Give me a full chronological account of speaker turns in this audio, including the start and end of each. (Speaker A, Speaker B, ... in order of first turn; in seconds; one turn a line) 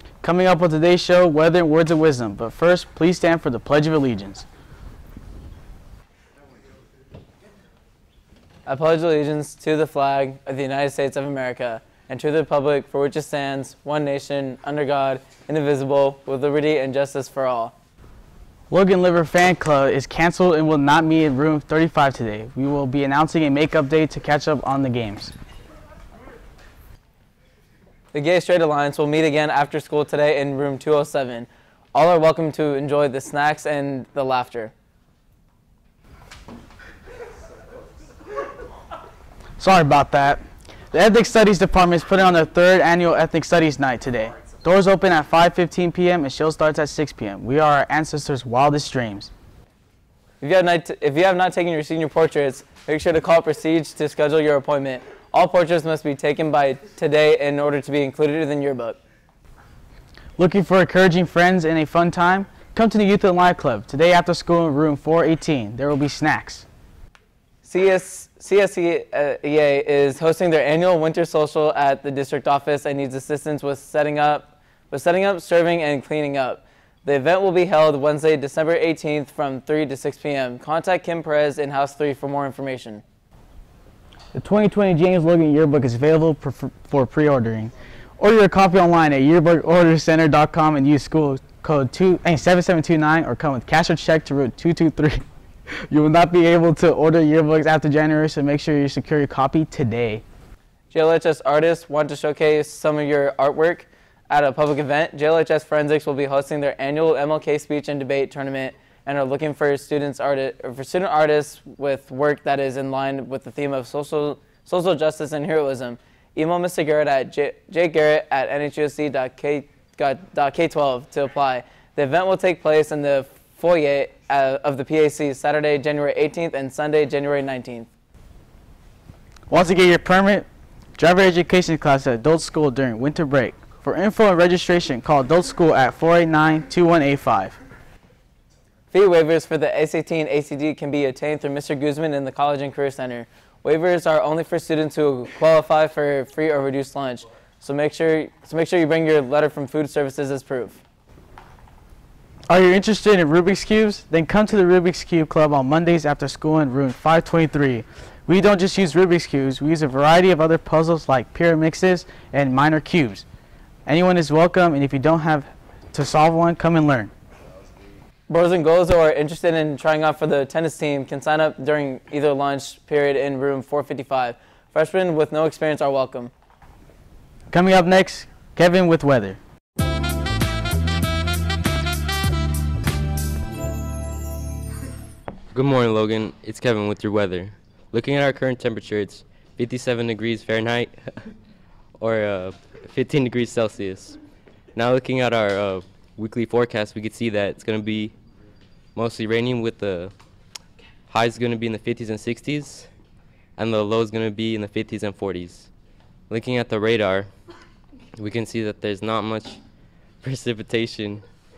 Speaker A: 0.2-4.4
Speaker B: 8.7-17.7
Speaker A: 18.7-25.3
Speaker B: 28.1-34.7
Speaker A: 39.6-40.4
Speaker A: 40.9-49.3
Speaker B: 50.4-59.0
Speaker A: 60.4-66.6
Speaker B: 67.6-83.0
Speaker A: 84.3-95.2
Speaker A: 95.9-100.2
Speaker B: 100.9-127.9
Speaker A: 129.5-130.4
Speaker A: 131.0-137.6
Speaker B: 138.9-150.8
Speaker A: 152.5-163.2
Speaker A: 163.8-167.1
Speaker B: 168.3-176.3
Speaker A: 177.5-179.4
Speaker C: 185.5-191.3
Speaker C: 192.0-194.2
Speaker C: 194.7-198.1
Speaker C: 198.9-200.1
Speaker C: 201.1-202.9
Speaker C: 203.6-205.7
Speaker C: 206.3-207.3
Speaker C: 208.2-209.6
Speaker C: 210.2-211.2